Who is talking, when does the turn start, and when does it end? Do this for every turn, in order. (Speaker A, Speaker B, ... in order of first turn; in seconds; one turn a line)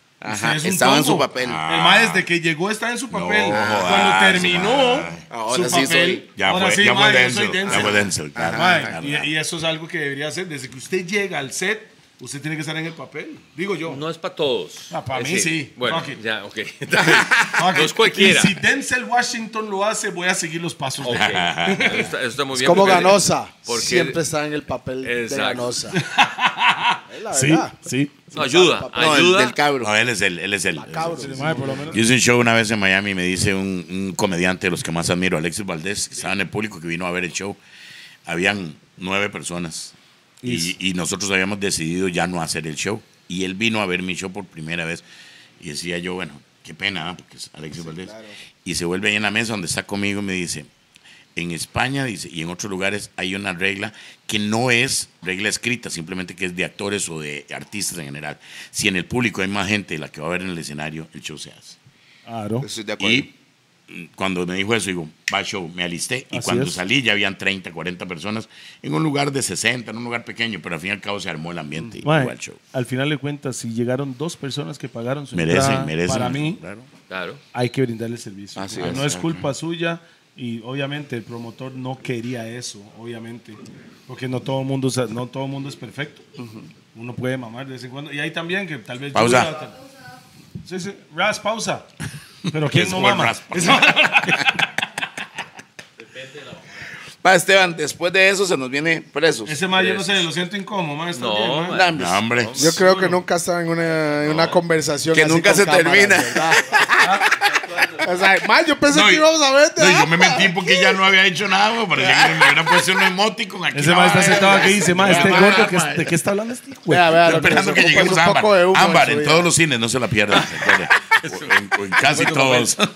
Speaker A: 0.2-1.6
Speaker B: 0.2-14.0
Speaker C: 1.4-2.3
Speaker C: 3.1-5.3
Speaker A: 5.3-6.3
Speaker C: 6.3-9.3
Speaker A: 7.7-9.0
Speaker D: 13.9-18.6
Speaker B: 14.9-16.2
Speaker B: 17.4-22.1
Speaker D: 21.0-24.2
Speaker C: 21.1-22.0
Speaker E: 22.5-26.0
Speaker D: 25.0-25.8
Speaker B: 25.9-28.3
Speaker E: 27.1-27.8
Speaker E: 28.3-29.3
Speaker D: 28.3-29.6
Speaker A: 28.9-29.9
Speaker C: 29.8-37.6
Speaker E: 30.8-32.0
Speaker B: 31.1-32.0
Speaker C: 38.3-45.0
Speaker B: 40.4-40.8
Speaker C: 45.6-48.1
Speaker E: 47.8-48.4
Speaker C: 48.6-50.7
Speaker C: 51.4-61.8
Speaker B: 62.3-62.7
Speaker A: 62.6-63.3
Speaker C: 63.0-63.3
Speaker C: 63.9-72.6
Speaker B: 66.3-66.8
Speaker B: 72.0-76.6
Speaker C: 75.3-76.9
Speaker D: 77.1-77.4
Speaker B: 77.5-86.2
Speaker A: 78.5-79.1
Speaker C: 78.8-79.5
Speaker A: 86.4-86.7
Speaker B: 86.9-89.8
Speaker C: 89.1-89.5
Speaker B: 90.6-91.9
Speaker C: 92.5-94.5
Speaker B: 92.5-94.7
Speaker A: 97.2-99.6
Speaker B: 99.5-101.9
Speaker D: 99.7-100.3
Speaker D: 101.1-102.8
Speaker A: 101.7-102.2
Speaker C: 101.9-102.8
Speaker E: 102.6-106.7
Speaker B: 102.6-103.2
Speaker A: 105.1-107.9
Speaker E: 107.9-110.5
Speaker C: 108.9-116.1
Speaker B: 113.7-117.7
Speaker E: 114.5-115.5
Speaker E: 116.9-119.5
Speaker C: 117.2-122.9
Speaker D: 120.3-122.8